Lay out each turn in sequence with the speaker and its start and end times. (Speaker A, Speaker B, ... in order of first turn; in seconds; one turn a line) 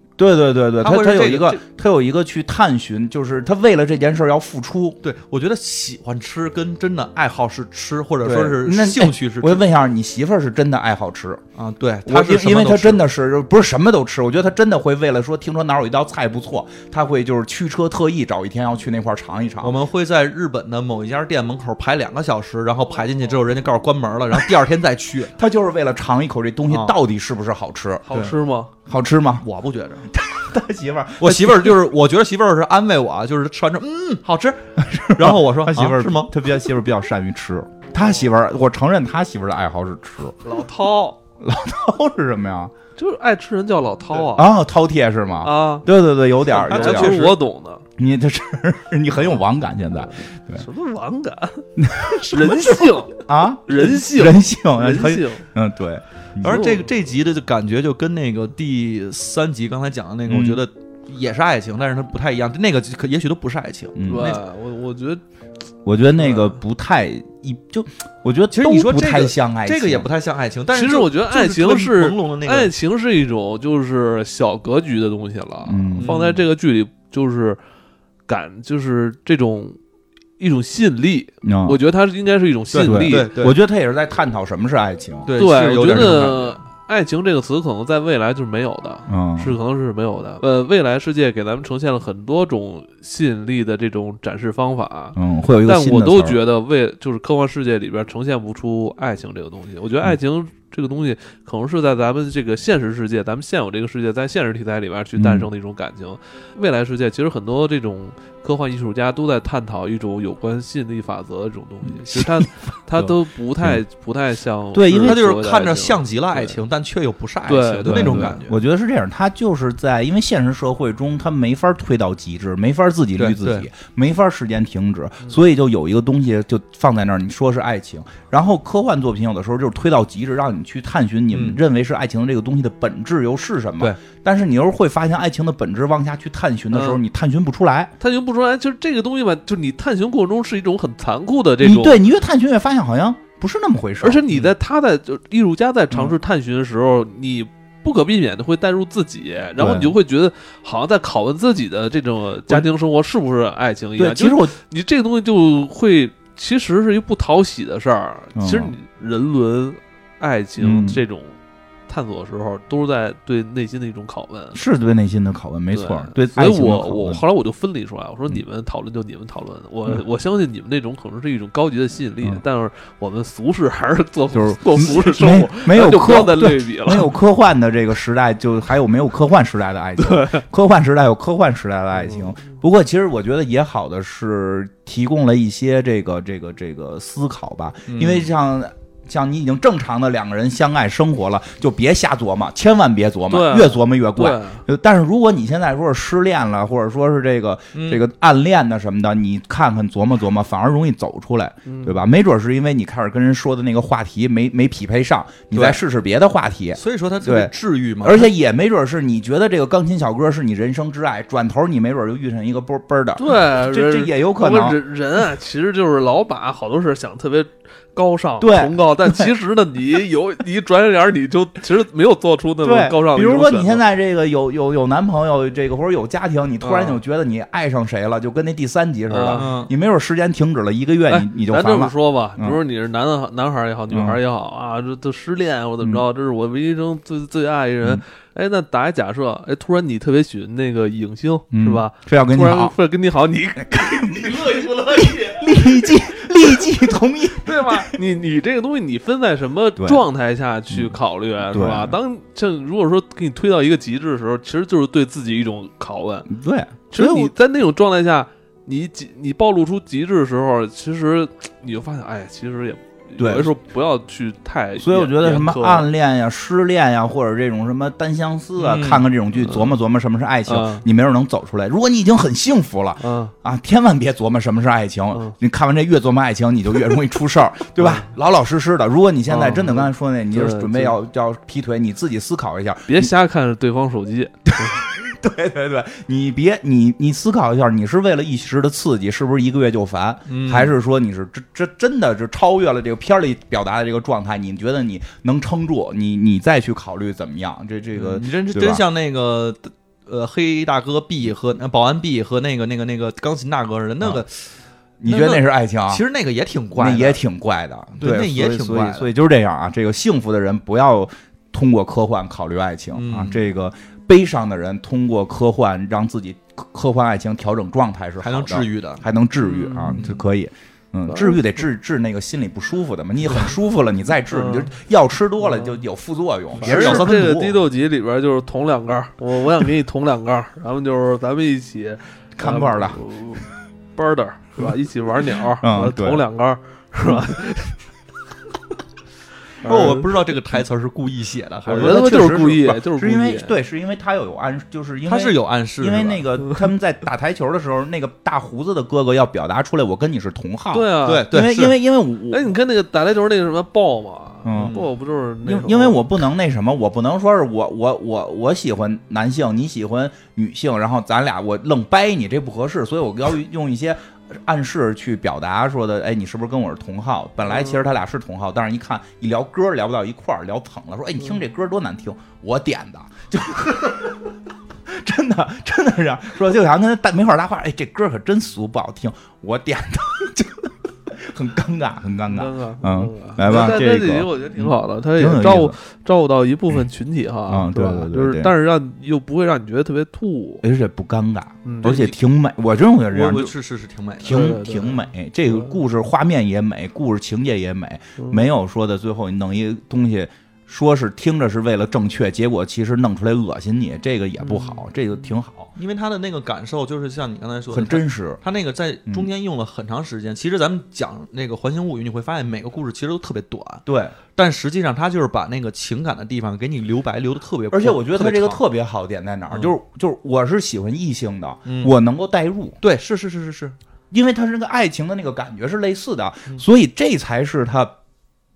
Speaker A: 0.2-5.0
Speaker B: 0.8-1.6
Speaker B: 5.0-9.6
Speaker A: 8.2-11.4
Speaker B: 11.6-13.0
Speaker A: 12.1-19.8
Speaker B: 19.6-25.3
Speaker A: 25.3-28.1
Speaker B: 26.7-27.0
Speaker C: 28.1-28.7
Speaker A: 28.9-29.4
Speaker B: 29.4-30.1
Speaker A: 30.1-31.8
Speaker B: 31.2-36.4
Speaker A: 34.8-40.4
Speaker C: 40.4-41.2
Speaker A: 41.4-42.7
Speaker C: 43.0-44.5
Speaker A: 44.3-47.2
Speaker C: 45.4-45.9
Speaker B: 46.5-47.4
Speaker C: 46.6-47.8
Speaker A: 48.0-50.6
Speaker C: 50.5-55.5
Speaker A: 51.8-56.6
Speaker B: 56.4-64.4
Speaker C: 56.5-56.9
Speaker A: 60.3-60.6
Speaker A: 64.0-64.4
Speaker C: 64.0-65.2
Speaker A: 65.8-70.1
Speaker C: 66.2-66.5
Speaker B: 68.5-72.7
Speaker C: 70.7-77.6
Speaker A: 75.7-76.1
Speaker B: 76.0-76.4
Speaker C: 78.3-79.8
Speaker C: 80.4-83.3
Speaker A: 81.4-81.8
Speaker B: 82.7-83.6
Speaker A: 82.8-85.3
Speaker B: 85.2-86.5
Speaker C: 85.3-116.6
Speaker A: 85.8-86.4
Speaker A: 89.1-89.6
Speaker A: 95.2-96.4
Speaker A: 105.2-105.5
Speaker A: 112.0-113.8
Speaker A: 114.7-115.2
Speaker B: 115.0-118.6
Speaker C: 117.5-118.4
Speaker A: 117.9-137.9
Speaker B: 123.2-123.7
Speaker B: 131.3-131.6
Speaker C: 136.7-137.0
Speaker C: 138.0-142.0
Speaker A: 141.6-144.4
Speaker C: 144.0-161.4
Speaker A: 149.6-149.9
Speaker A: 154.0-154.6
Speaker A: 158.3-158.7
Speaker A: 160.6-161.0
Speaker C: 161.9-164.6
Speaker A: 164.5-167.2
Speaker C: 165.7-177.1
Speaker A: 174.3-214.8
Speaker C: 180.0-180.4
Speaker B: 187.9-188.3
Speaker C: 193.3-194.6
Speaker B: 197.7-198.0
Speaker C: 201.6-202.0
Speaker B: 205.5-205.8
Speaker B: 206.8-208.3
Speaker C: 213.2-223.8
Speaker A: 218.4-219.3
Speaker A: 222.6-232.6
Speaker C: 226.6-227.0
Speaker C: 229.1-229.5
Speaker B: 229.3-229.7
Speaker C: 231.1-246.2
Speaker A: 233.9-234.2
Speaker A: 241.5-242.7
Speaker A: 243.6-248.0
Speaker C: 247.4-256.3
Speaker A: 249.8-250.0
Speaker A: 250.7-252.0
Speaker A: 256.3-257.3
Speaker C: 256.9-265.9
Speaker A: 263.2-263.5
Speaker A: 264.8-283.1
Speaker B: 268.6-269.1
Speaker C: 269.4-269.7
Speaker C: 270.4-270.8
Speaker C: 273.0-273.3
Speaker C: 277.8-278.1
Speaker C: 279.3-280.9
Speaker C: 282.9-284.8
Speaker A: 284.5-298.8
Speaker B: 290.3-290.7
Speaker B: 297.9-304.5
Speaker A: 305.0-306.0
Speaker B: 305.1-307.2
Speaker A: 306.8-327.1
Speaker B: 308.0-309.1
Speaker B: 312.9-313.4
Speaker B: 318.2-319.0
Speaker C: 319.4-320.1
Speaker B: 319.9-320.2
Speaker C: 321.1-321.5
Speaker C: 324.3-324.7
Speaker C: 325.4-325.8
Speaker B: 326.6-327.6
Speaker C: 326.6-337.8
Speaker A: 332.4-333.0
Speaker A: 335.6-336.2
Speaker C: 339.6-340.1
Speaker B: 339.6-342.4
Speaker C: 341.7-343.5
Speaker A: 341.7-352.5
Speaker B: 345.1-346.2
Speaker C: 350.7-351.3
Speaker B: 351.0-351.8
Speaker C: 352.3-356.0
Speaker A: 354.4-354.8
Speaker B: 354.5-354.9
Speaker A: 355.4-374.3
Speaker A: 374.9-385.8
Speaker C: 382.3-390.6
Speaker A: 387.5-388.5
Speaker A: 390.6-393.5
Speaker C: 391.6-392.0
Speaker B: 391.8-392.2
Speaker B: 393.1-394.5
Speaker A: 394.2-405.7
Speaker C: 394.2-395.8
Speaker C: 398.2-398.4
Speaker C: 404.4-404.8
Speaker B: 405.8-413.8
Speaker A: 407.7-408.4
Speaker A: 413.9-414.1
Speaker B: 414.3-418.6
Speaker A: 417.7-422.8
Speaker B: 419.5-419.7
Speaker B: 421.6-421.9
Speaker B: 422.8-423.7
Speaker A: 424.1-427.9